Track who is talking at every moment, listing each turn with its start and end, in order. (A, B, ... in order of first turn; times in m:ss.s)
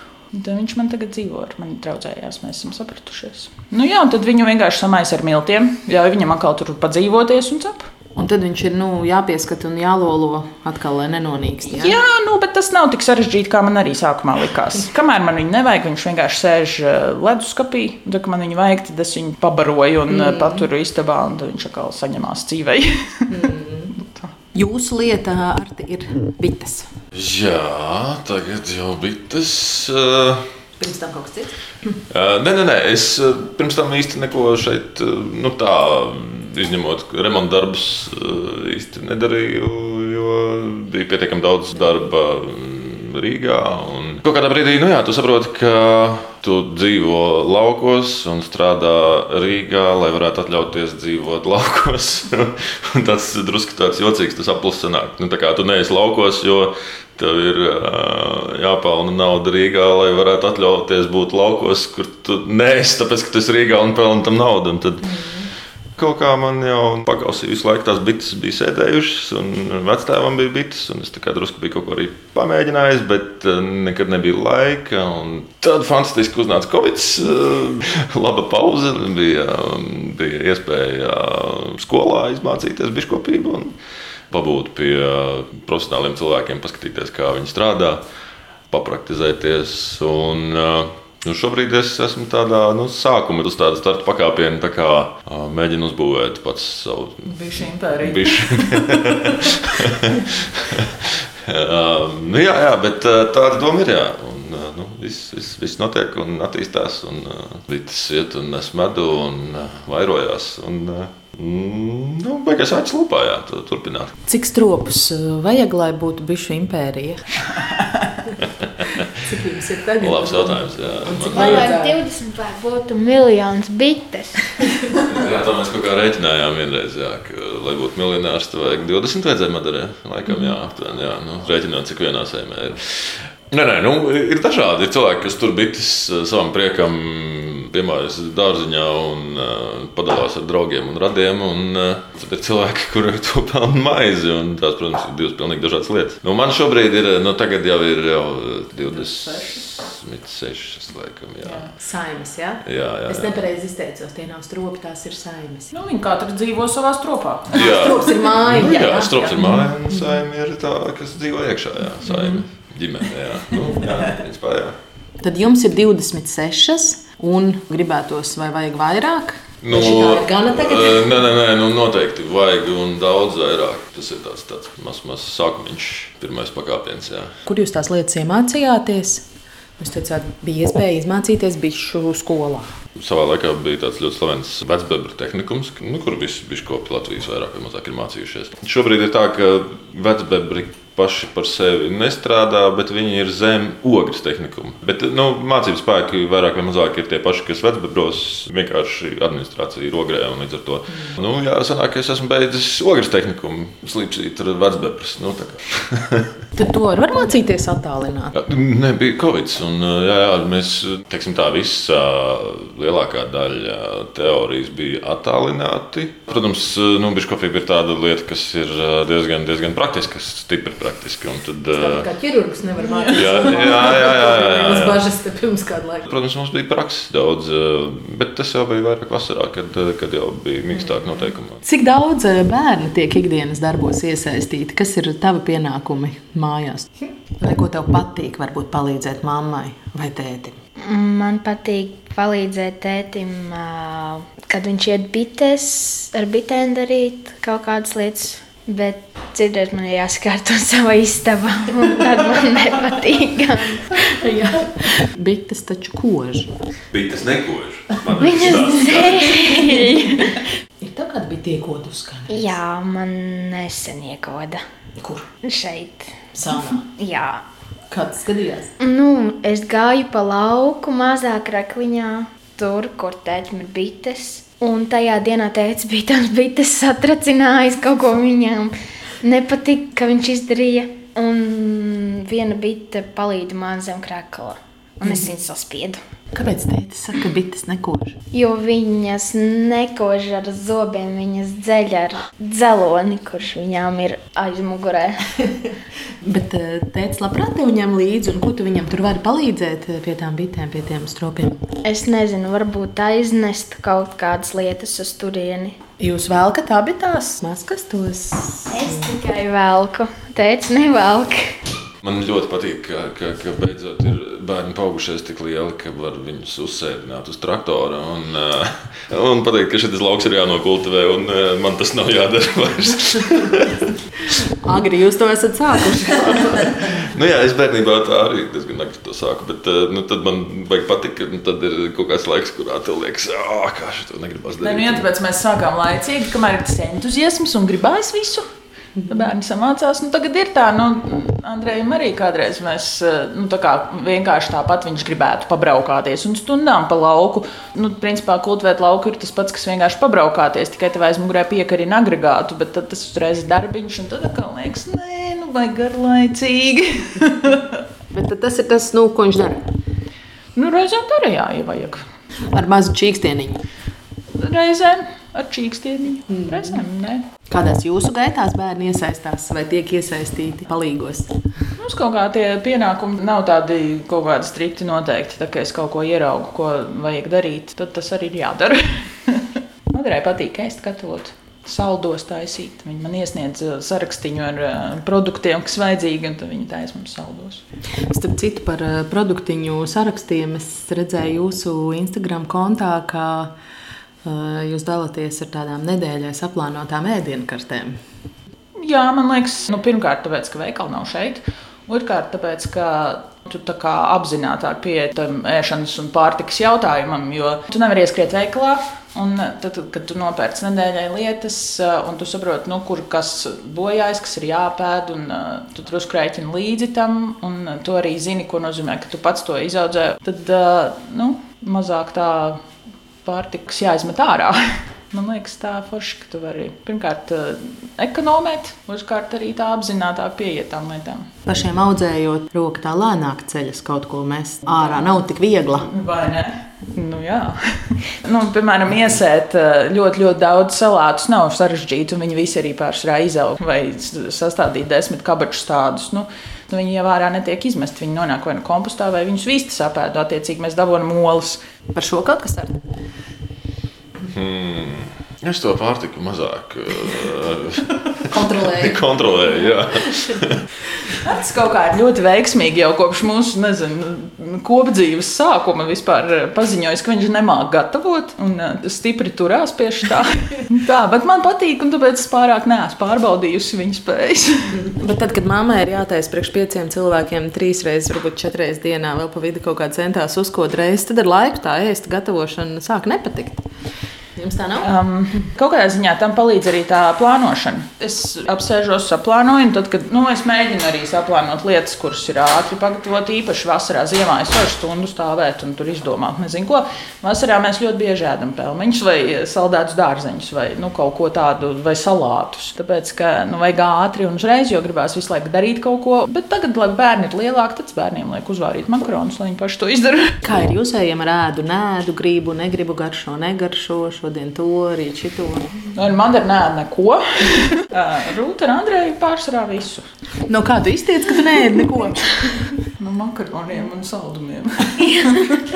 0:00.3-0:07.9 A
0:08.2-0:12.0 B
0:11.7-0:24.3 A
0:20.1-0:20.7 B
0:23.3-0:23.9 B
0:24.5-0:26.9 B
0:27.1-0:30.5 C
0:30.8-0:31.6 B
0:32.1-1:05.5 C
1:05.0-1:05.5 B
1:06.0-1:23.7 C
1:24.3-1:28.0 C
1:28.7-1:37.3 C
1:37.2-1:39.6 A
1:38.0-1:54.2 C
1:54.3-1:57.4 B
1:57.5-1:58.1 A
1:59.2-2:02.0 B
2:00.0-2:01.7 C
2:01.3-2:04.7 D
2:05.1-2:31.7 C
2:10.3-2:10.5 B
2:28.9-2:29.8 A
2:31.8-2:35.7 B
2:32.6-2:33.4 C
2:35.7-2:37.7 A
2:37.5-2:44.8 C
2:37.6-2:39.6 B
2:45.2-2:51.1 B
2:49.6-2:57.4 C
2:57.4-2:59.3 B
2:59.8-3:02.8 B
3:02.9-3:26.3 C
3:26.6-3:28.3 B
3:28.3-3:42.1 C
3:41.7-3:46.1 B
3:42.9-3:43.2 A
3:43.1-3:45.1 C
3:46.0-3:51.6 C
3:50.7-4:00.6 B
4:00.8-4:14.2 D
4:14.0-4:16.5 B
4:16.9-4:19.8 C
4:18.1-4:20.4 D
4:19.4-4:22.6 B
4:22.3-4:24.6 D
4:25.0-4:25.3 B
4:25.4-4:26.3 D
4:26.3-4:26.8 B
4:26.8-4:27.4 D
4:27.9-4:28.7 B
4:28.8-4:46.0 D
4:46.3-4:48.2 B
4:48.3-4:55.4 D
4:56.2-5:01.7 B
5:01.8-5:05.8 D
5:06.0-5:09.2 B
5:08.7-5:11.5 D
5:12.0-5:23.9 C
5:24.6-5:26.9 B
5:27.0-5:35.1 C
5:34.6-5:38.4 A
5:39.0-5:57.8 A
5:58.1-5:59.7 B
6:00.5-6:02.0 A
6:02.4-6:03.6 B
6:04.3-6:07.2 A
6:06.3-6:06.8 B
6:07.5-6:11.4 B
6:11.8-6:27.6 A
6:28.0-6:33.5 B
6:34.2-6:38.0 B
6:38.8-7:02.6 A
7:03.2-7:11.3 A
7:11.4-7:15.9 B
7:15.8-7:31.6 A
7:31.9-7:32.8 B
7:34.2-7:38.0 C
7:38.3-7:39.0 B
7:38.6-7:40.6 C
7:41.2-7:54.8 A
7:54.8-8:03.7 B
8:04.4-8:04.9 B
8:04.8-8:30.4 A
8:30.4-8:35.7 B
8:35.9-8:40.1 A
8:40.4-8:42.6 B
8:42.8-8:45.6 A
8:45.0-8:45.3 D